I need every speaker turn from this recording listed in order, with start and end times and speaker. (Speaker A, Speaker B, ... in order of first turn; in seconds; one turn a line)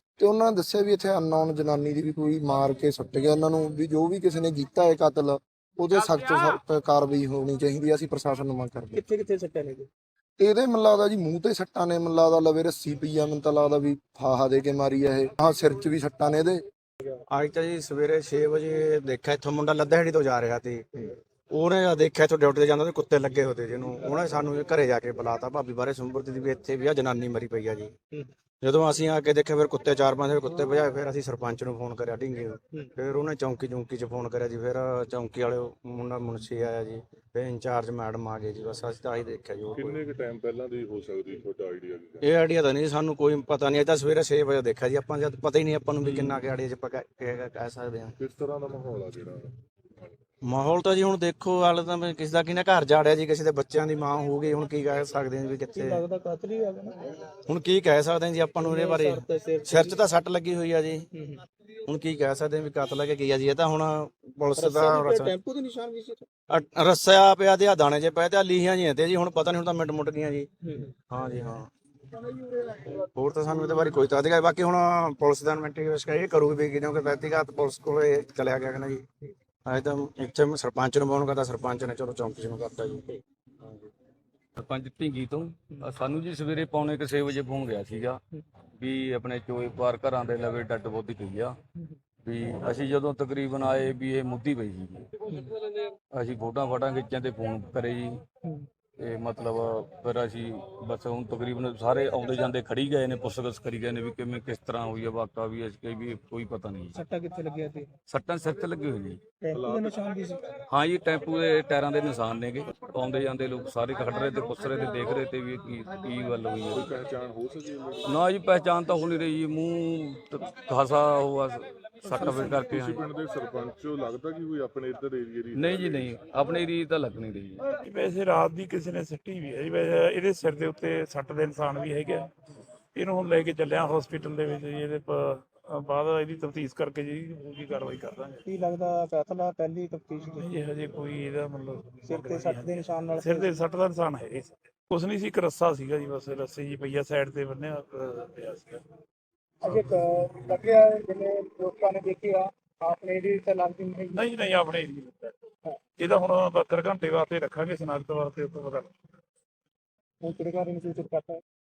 Speaker A: 0.2-9.0
Speaker B: 8.9-9.9
Speaker A: 10.4-16.6
Speaker C: 17.3-27.9
Speaker C: 28.6-40.0
Speaker D: 39.7-42.3
Speaker C: 42.2-48.1
Speaker D: 48.2-49.5
Speaker C: 50.5-56.0
Speaker B: 55.8-57.0
Speaker C: 57.5-61.1
Speaker B: 58.6-60.0
Speaker B: 61.1-61.4
Speaker C: 61.9-65.3
Speaker B: 64.6-66.2
Speaker C: 66.5-70.5
Speaker B: 70.6-70.9
Speaker C: 71.1-71.7
Speaker C: 72.5-79.0
Speaker C: 79.7-83.9
Speaker E: 84.6-88.2
Speaker E: 88.8-91.6
Speaker E: 92.2-95.1
Speaker E: 96.1-98.2
Speaker E: 99.0-107.0
Speaker B: 106.9-107.9
Speaker E: 108.1-109.2
Speaker B: 109.4-110.5
Speaker D: 109.5-110.0
Speaker E: 110.7-117.0
Speaker D: 116.7-118.2
Speaker E: 118.1-123.1
Speaker D: 122.1-126.2
Speaker E: 125.5-127.7
Speaker F: 127.8-132.3
Speaker F: 132.9-138.4
Speaker B: 138.4-140.5
Speaker F: 140.4-148.8
Speaker B: 142.1-143.5
Speaker B: 149.6-154.3
Speaker F: 154.1-155.3
Speaker F: 156.0-158.9
Speaker B: 160.2-161.4